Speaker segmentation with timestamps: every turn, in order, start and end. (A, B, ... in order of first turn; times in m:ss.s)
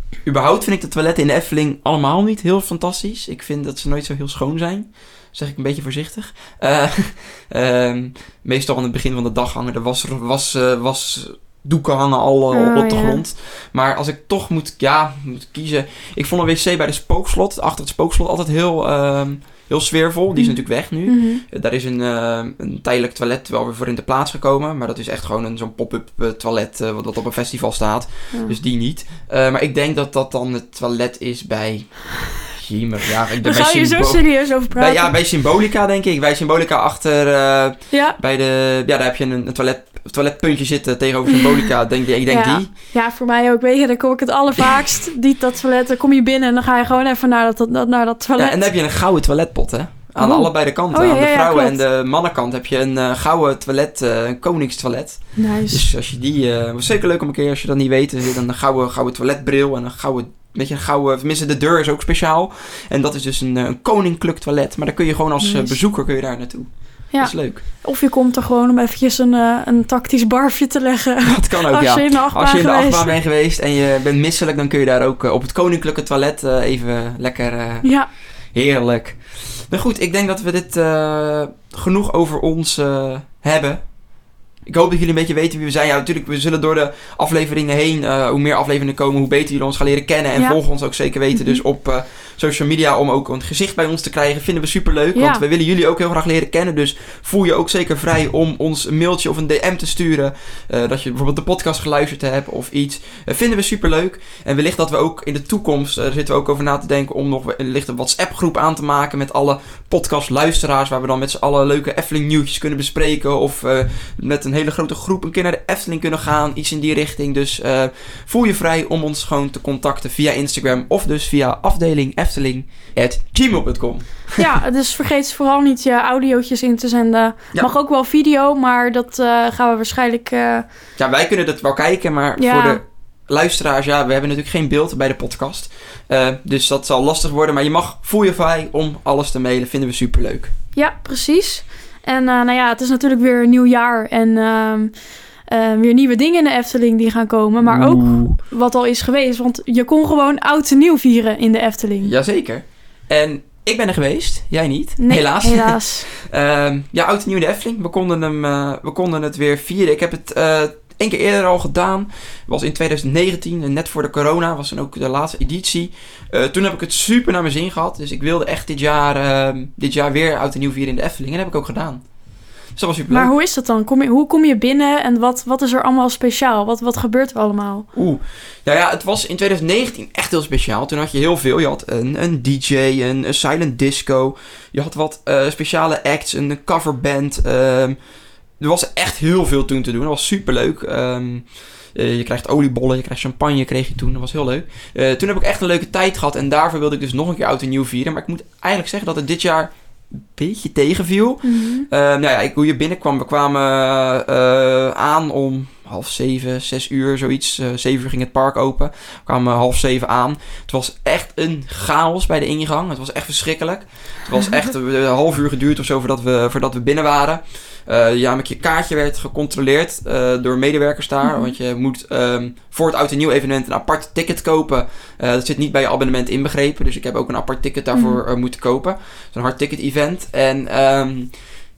0:00.2-0:42.7 A
0:12.5-0:13.2 B
0:20.4-0:21.4 B
0:28.3-0:28.6 B
0:33.4-0:35.1 B
0:37.9-0:38.2 B
0:42.3-0:48.6 B
0:48.4-1:07.6 A
0:50.2-0:51.8 B
0:55.4-0:55.8 B
1:05.4-1:05.8 B
1:07.1-1:13.2 B
1:11.2-1:24.1 A
1:17.8-1:18.1 B
1:24.6-2:04.5 A
1:31.3-1:31.6 B
1:35.2-1:35.4 B
2:04.4-2:10.6 B
2:11.0-2:20.5 A
2:12.4-2:12.8 B
2:20.8-2:25.0 B
2:25.5-2:32.1 B
2:27.6-2:28.4 A
2:32.0-2:52.0 A
2:35.0-2:36.1 B
2:52.7-2:53.3 A
2:53.1-2:57.9 B
2:57.9-3:08.0 A
3:08.6-3:51.4 A
3:21.4-3:21.9 B
3:41.2-3:41.5 B
3:47.9-3:48.2 B